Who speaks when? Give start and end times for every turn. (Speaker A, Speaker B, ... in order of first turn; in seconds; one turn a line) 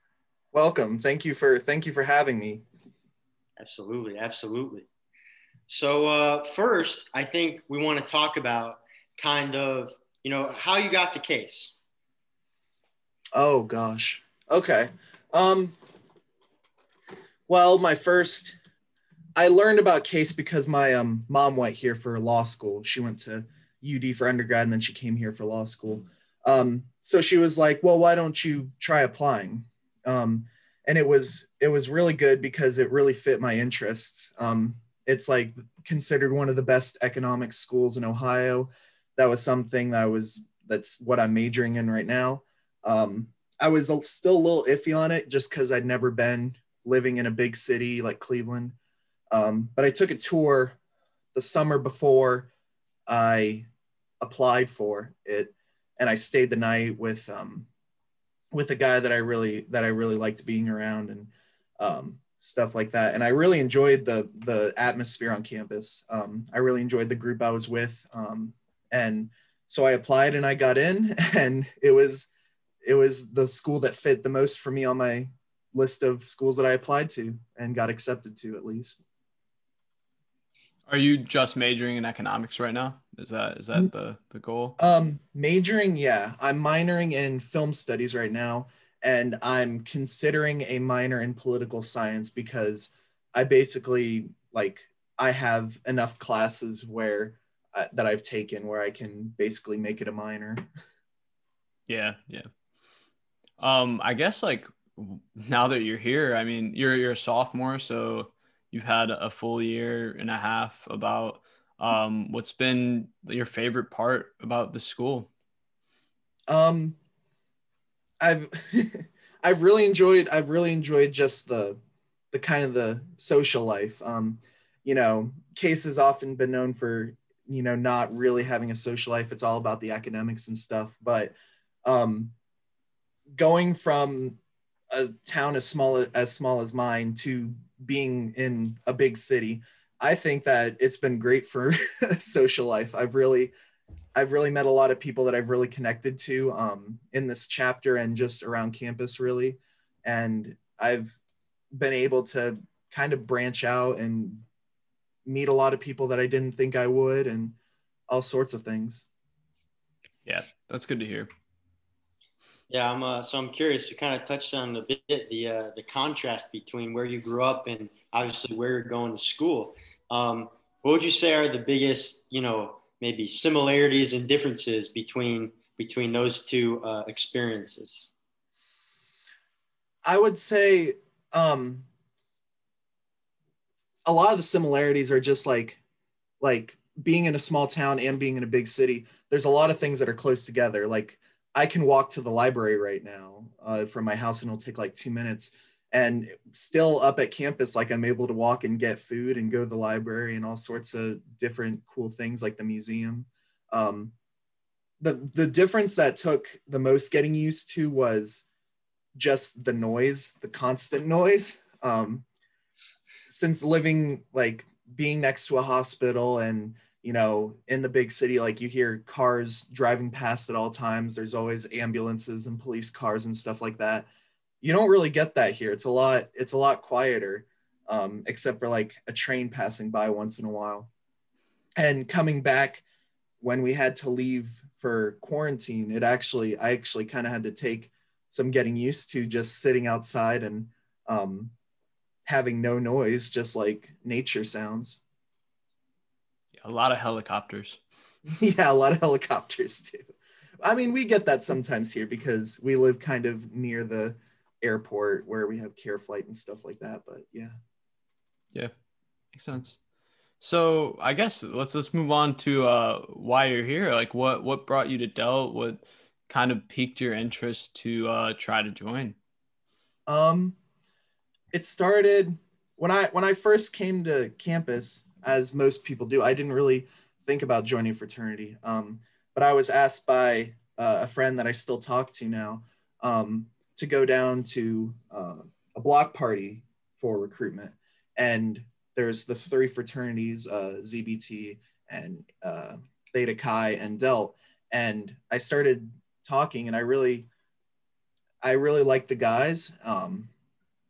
Speaker A: 0.5-2.6
Speaker B: 3.6-4.9
Speaker B: 5.7-11.8
Speaker A: 13.3-15.8
Speaker A: 17.5-18.6
Speaker A: 19.4-48.8
Speaker A: 49.3-50.8
Speaker A: 51.3-52.5
Speaker A: 53.1-53.7
Speaker A: 54.2-57.7
Speaker A: 58.5-72.3
Speaker A: 72.8-79.0
Speaker C: 80.9-84.8
Speaker A: 84.8-100.7
Speaker C: 101.9-102.5
Speaker C: 103.6-115.3
Speaker A: 116.5-117.0
Speaker A: 118.2-121.8
Speaker A: 122.3-131.3
Speaker A: 131.8-132.3
Speaker A: 133.4-134.4
Speaker A: 134.9-143.5
Speaker A: 144.2-151.2
Speaker A: 151.7-154.5
Speaker A: 155.2-157.6
Speaker A: 158.1-159.1
Speaker C: 160.2-161.3
Speaker B: 162.7-178.1
Speaker A: 180.1-181.9
Speaker A: 184.1-185.8
Speaker A: 186.4-204.2
Speaker A: 205.0-208.5
Speaker A: 209.2-212.2
Speaker A: 213.3-224.1
Speaker A: 224.6-230.9
Speaker A: 231.8-232.8
Speaker A: 233.4-241.5
Speaker A: 242.3-245.0
Speaker C: 246.6-247.8
Speaker A: 248.3-257.6
Speaker C: 259.3-259.8
Speaker C: 260.4-269.1
Speaker A: 270.1-270.6
Speaker A: 271.5-297.3
Speaker A: 298.4-300.3